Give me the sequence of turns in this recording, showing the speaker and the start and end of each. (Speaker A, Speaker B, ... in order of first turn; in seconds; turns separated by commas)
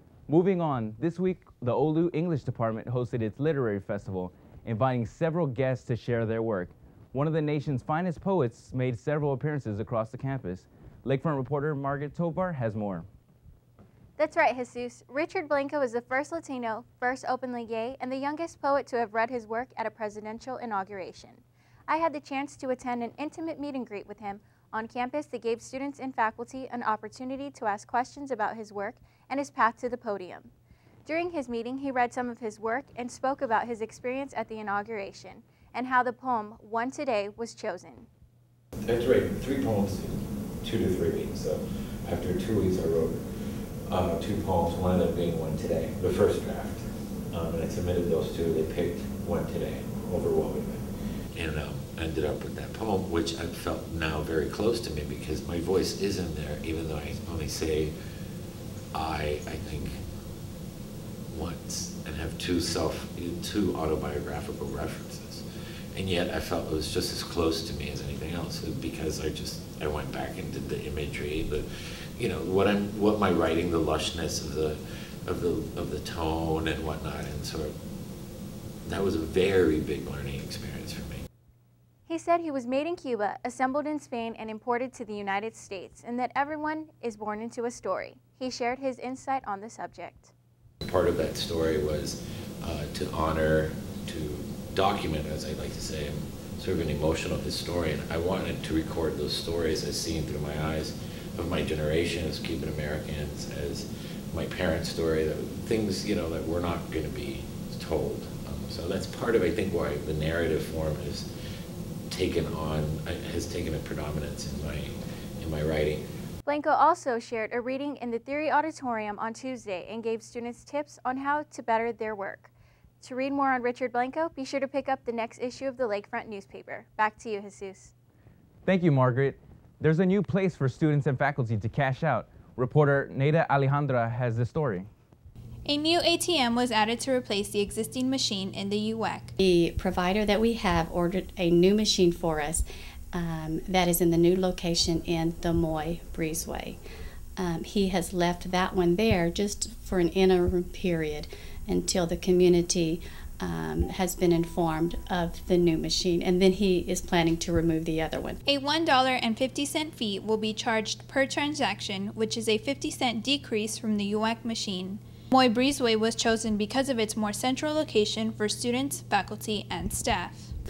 Speaker A: 0.3-13.1, Speaker B: 14.2-30.5, Speaker B: 31.1-38.1, Speaker C: 38.8-43.2, Speaker C: 43.9-57.9, Speaker C: 58.9-59.9, Speaker C: 61.3-71.7, Speaker C: 72.2-77.7, Speaker C: 78.8-81.2, Speaker B: 82.1-90.3, Speaker C: 90.8-111.3, Speaker C: 112.1-116.0, Speaker B: 116.5-127.9, Speaker A: 128.7-134.9, Speaker D: 135.6-139.3, Speaker E: 139.4-146.8, Speaker E: 147.4-158.4, Speaker D: 158.4-170.5